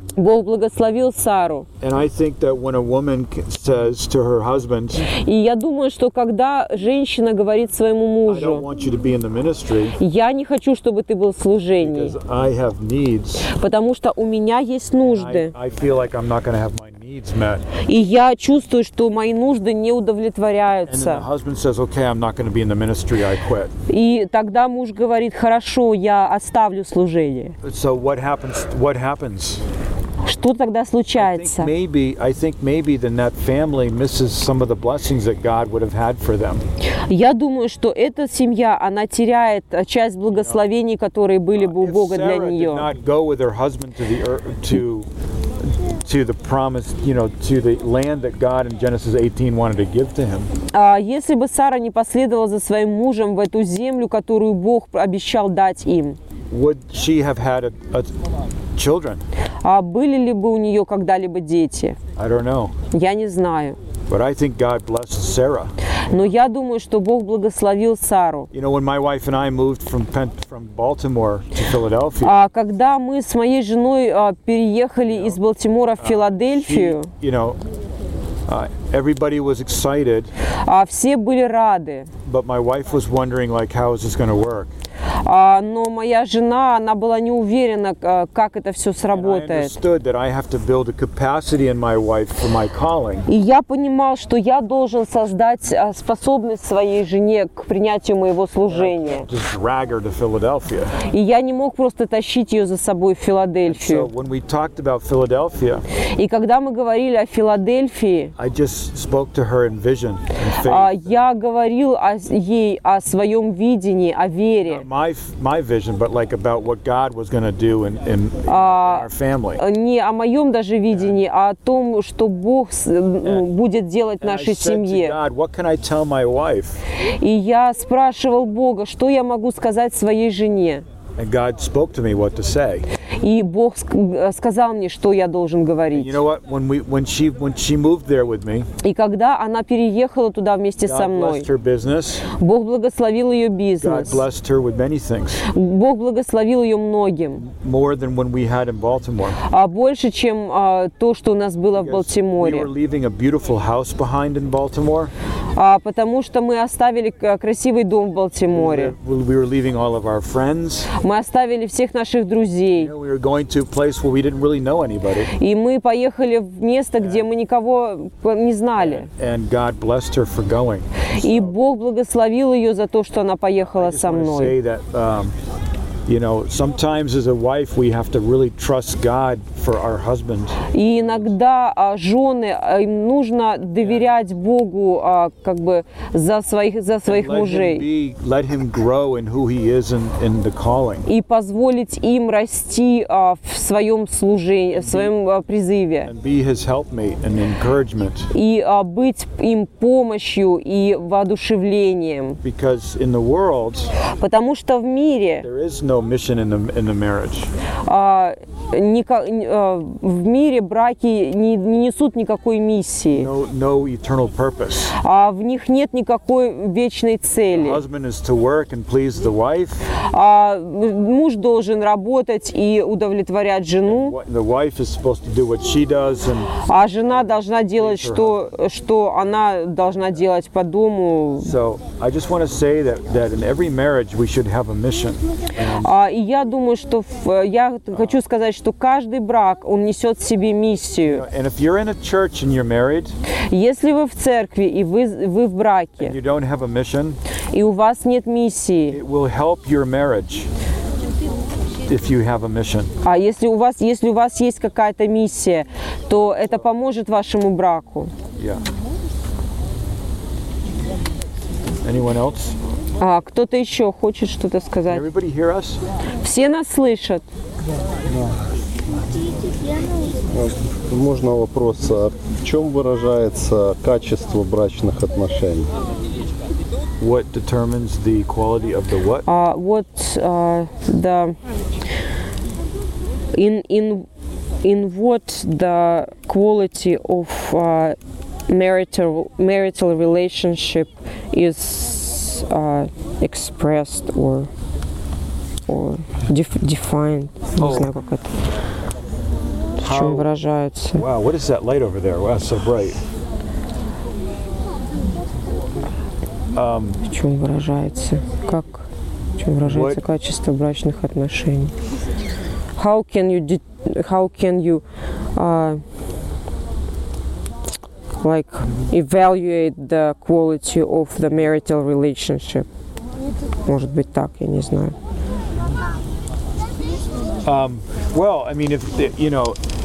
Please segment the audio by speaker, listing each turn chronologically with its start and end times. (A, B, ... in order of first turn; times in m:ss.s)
0:00.2-0:01.7 A
0:01.8-0:05.1 B
0:05.1-0:08.7 A
0:08.3-0:10.0 B
0:10.0-0:12.1 A
0:11.8-0:13.5 B
0:13.5-0:15.5 A
0:15.0-0:17.6 B
0:17.9-0:21.3 A
0:20.9-0:23.7 B
0:23.9-0:27.6 A
0:27.6-0:29.6 B
0:30.2-0:31.7 A
0:31.2-0:36.6 B
0:37.1-0:42.9 A
0:40.3-0:40.6 B
0:41.6-0:45.1 B
0:45.7-0:50.5 B
0:50.7-0:56.2 A
0:56.5-0:58.1 B
0:58.8-0:59.2 B
0:59.6-1:02.0 A
1:02.2-1:02.7 B
1:02.9-1:03.8 A
1:04.1-1:06.2 B
1:06.1-1:08.5 A
1:08.5-1:12.4 B
1:12.2-1:17.1 A
1:15.1-1:15.4 B
1:16.0-1:17.6 B
1:18.5-1:20.3 B
1:20.6-1:22.1 A
1:22.2-1:24.7 B
1:25.2-1:29.8 A
1:29.1-1:33.3 B
1:33.3-1:39.3 A
1:38.7-1:41.0 B
1:41.1-1:44.1 A
1:43.7-1:45.8 B
1:46.2-1:48.3 A
1:48.4-1:51.1 B
1:50.6-1:54.9 A
1:54.7-1:59.6 B
1:58.5-2:05.2 A
2:00.9-2:01.2 B
2:04.2-2:06.8 B
2:07.2-2:10.8 A
2:11.2-2:12.9 B
2:13.2-2:16.2 A
2:15.9-2:18.7 B
2:18.8-2:21.5 A
2:20.8-2:22.3 B
2:22.4-2:24.2 A
2:23.8-2:25.4 B
2:25.5-2:27.4 A
2:27.4-2:29.4 B
2:29.5-2:32.7 A
2:31.8-2:35.1 B
2:35.6-2:38.9 A
2:38.5-2:40.9 B
2:41.0-2:42.9 A
2:42.8-2:45.3 B
2:45.4-2:49.1 A
2:47.0-2:47.3 B
2:48.8-2:51.5 B
2:51.2-2:54.6 A
2:53.8-2:55.3 B
2:56.1-3:01.3 B
3:00.7-3:07.9 A
3:03.8-3:04.1 B
3:07.1-3:11.1 B
3:11.1-3:16.1 A
3:14.7-3:15.1 B
3:16.0-3:18.3 B
3:18.3-3:22.4 A
3:22.4-3:23.9 B
3:24.1-3:25.5 A
3:25.4-3:27.5 B
3:27.9-3:33.3 A
3:33.1-3:35.0 B
3:35.0-3:37.8 A
3:37.5-3:39.8 B
3:40.0-3:44.1 A
3:43.9-3:46.5 B
3:46.7-3:51.5 A
3:47.7-3:48.4 B
3:51.4-3:55.9 B
3:55.8-4:01.2 A
3:57.9-3:58.2 B
4:01.1-4:03.1 B
4:03.5-4:06.1 A
4:06.0-4:07.2 B
4:07.5-4:09.0 A
4:08.9-4:10.5 B
4:11.9-4:12.9 B
4:13.0-4:18.1 A
4:18.4-4:18.6 B
4:21.8-4:22.6 B
4:23.0-4:25.0 A
4:24.9-4:25.8 B
4:26.2-4:27.2 A
4:30.3-4:35.7 C
4:37.0-4:39.3 B
4:39.3-4:41.4 A
4:43.3-4:44.1 A
4:44.6-4:48.0 A
4:48.5-4:54.5 A
4:55.7-4:58.3 A
4:57.6-4:57.9 B
4:59.8-5:01.0 A
4:59.8-5:00.3 B
5:01.0-5:03.0 B
5:06.5-5:07.0 B
5:07.0-5:08.8 A
5:09.4-5:11.7 A
5:09.6-5:10.0 B
5:12.8-5:14.8 A
5:15.4-5:15.8 A
5:18.2-5:22.7 A
5:23.7-5:24.9 A
5:27.4-5:29.6 B